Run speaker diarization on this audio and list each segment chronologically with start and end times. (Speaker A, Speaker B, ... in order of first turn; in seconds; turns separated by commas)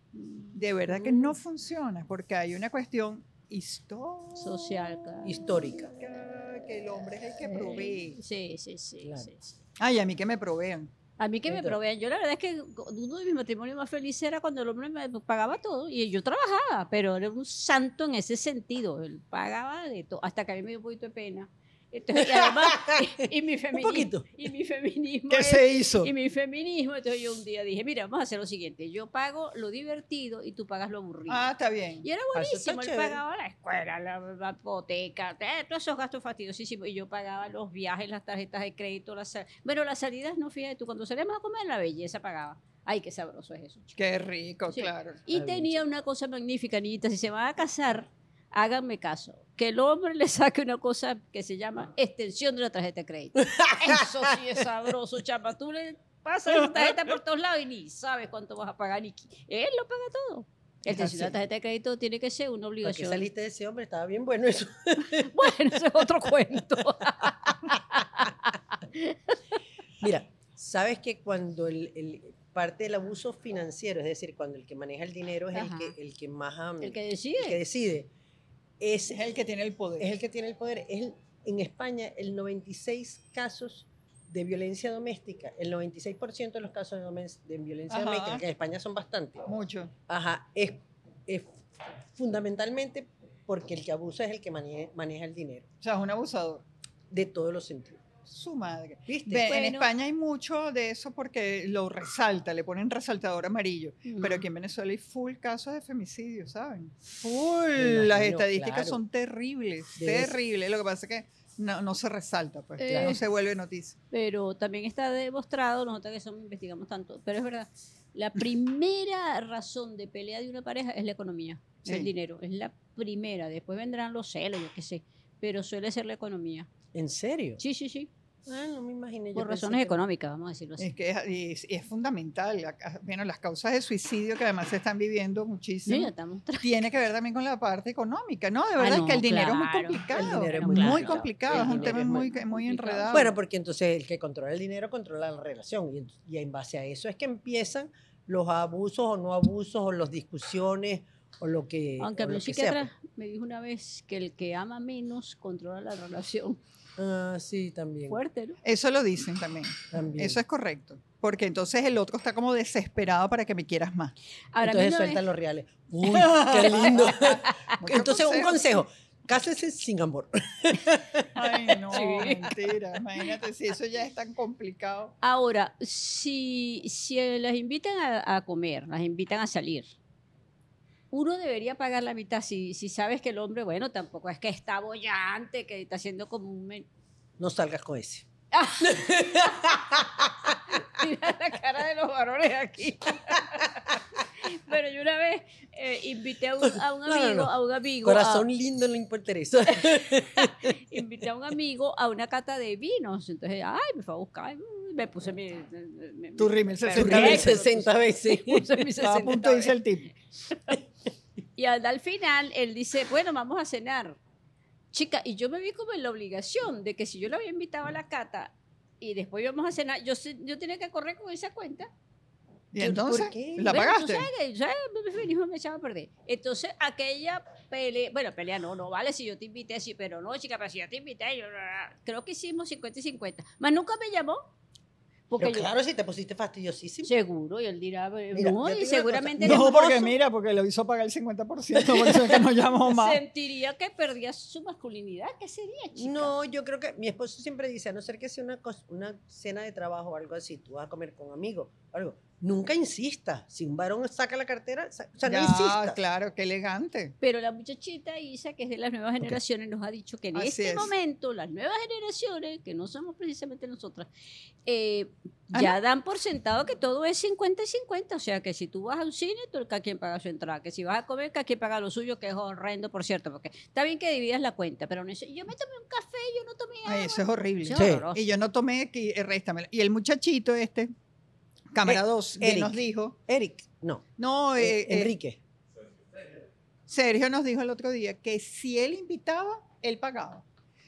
Speaker A: 0.1-1.3, Speaker B: 0.5-4.8, Speaker A: 4.3-5.4, Speaker C: 5.2-5.9, Speaker B: 5.7-8.2, Speaker A: 7.4-9.6, Speaker C: 9.0-9.3, Speaker B: 9.8-10.9, Speaker A: 11.2-31.5, Speaker C: 11.5-11.8, Speaker C: 22.1-24.3, Speaker B: 25.3-26.1, Speaker B: 31.3-32.0, Speaker A: 32.0-43.9, Speaker C: 32.3-33.2, Speaker B: 44.0-45.2, Speaker A: 44.7-63.3, Speaker C: 45.3-45.8, Speaker C: 53.4-54.3, Speaker C: 60.9-61.3, Speaker C: 62.8-65.5, Speaker A: 65.1-69.4, Speaker C: 67.2-67.5, Speaker C: 70.0-78.1, Speaker A: 75.5-75.9, Speaker A: 76.8-77.6, Speaker C: 78.8-79.2, Speaker B: 79.1-80.1, Speaker C: 80.0-89.5, Speaker B: 87.9-88.4, Speaker B: 89.5-89.9, Speaker C: 90.1-91.5, Speaker C: 92.1-95.7, Speaker B: 95.8-96.6, Speaker C: 97.1-98.0, Speaker B: 98.2-114.0, Speaker C: 99.1-99.5, Speaker A: 99.4-99.9, Speaker A: 104.0-104.4, Speaker C: 107.8-109.0, Speaker C: 110.0-110.4, Speaker A: 112.8-113.2, Speaker C: 112.9-113.2, Speaker A: 114.1-126.7, Speaker C: 126.9-127.6, Speaker A: 127.6-128.1, Speaker C: 128.4-130.0, Speaker A: 129.3-130.9, Speaker B: 130.8-143.3, Speaker A: 135.9-136.7, Speaker A: 138.8-143.3, Speaker C: 140.1-142.3, Speaker C: 143.1-152.9, Speaker A: 152.0-156.6, Speaker C: 157.0-158.2, Speaker A: 158.1-158.6, Speaker B: 158.6-164.1, Speaker C: 159.9-160.4, Speaker A: 164.5-165.2, Speaker C: 164.6-171.5, Speaker B: 166.0-168.8, Speaker A: 166.6-167.6, Speaker B: 171.3-175.1, Speaker A: 171.9-172.5, Speaker A: 175.2-179.9, Speaker A: 181.1-186.9, Speaker C: 187.4-188.3, Speaker A: 188.5-189.8, Speaker C: 188.8-190.8, Speaker A: 190.7-198.4, Speaker C: 196.6-200.8, Speaker A: 199.7-209.7, Speaker B: 206.4-207.6, Speaker C: 206.9-208.8, Speaker B: 209.0-210.1, Speaker A: 210.5-210.8, Speaker A: 211.6-214.2, Speaker A: 214.9-221.9, Speaker B: 222.7-224.3, Speaker C: 222.8-223.8, Speaker A: 223.6-234.4, Speaker A: 235.3-235.7, Speaker C: 235.4-237.1, Speaker A: 237.0-240.0, Speaker C: 238.3-240.0, Speaker B: 239.4-243.2, Speaker A: 242.8-246.3, Speaker C: 245.9-256.0, Speaker B: 255.2-257.1, Speaker A: 257.2-264.1, Speaker B: 260.3-260.9, Speaker A: 264.6-278.2, Speaker B: 265.5-265.8, Speaker B: 276.9-280.9, Speaker C: 277.7-278.0, Speaker B: 281.7-283.1, Speaker C: 281.9-284.0, Speaker B: 284.2-285.1, Speaker C: 284.6-285.4, Speaker B: 286.9-290.4